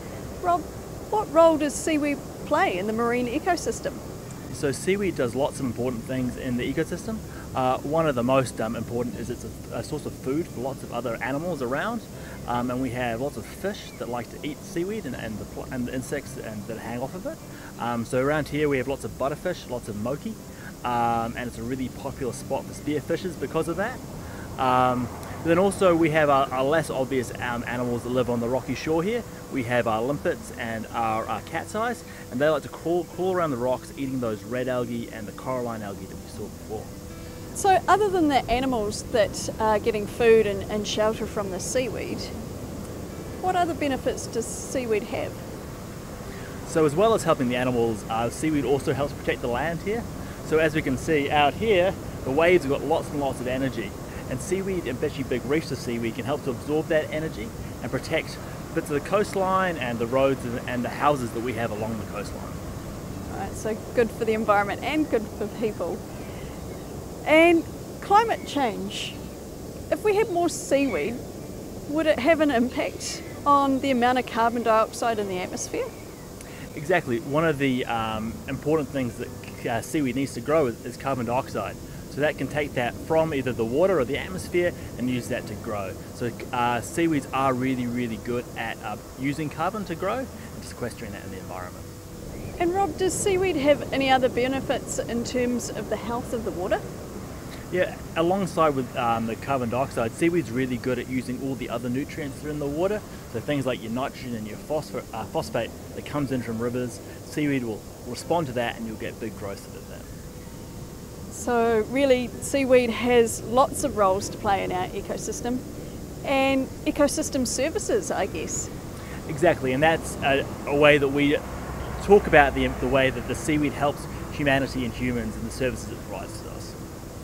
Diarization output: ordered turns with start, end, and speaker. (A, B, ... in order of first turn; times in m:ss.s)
0:00.4-0:04.0 A
0:04.5-0:24.0 B
0:24.6-0:36.9 B
0:37.5-0:42.3 A
0:43.4-0:45.4 A
0:46.7-1:02.6 B
1:03.3-1:06.0 A
1:07.2-1:09.2 A
1:09.9-1:11.2 A
1:11.9-1:15.9 A
1:16.8-1:31.9 B
1:32.6-1:36.8 A
1:37.7-1:50.1 B
1:51.3-1:55.6 A
1:56.2-1:58.7 A
1:59.3-2:01.4 B
2:02.0-2:06.8 B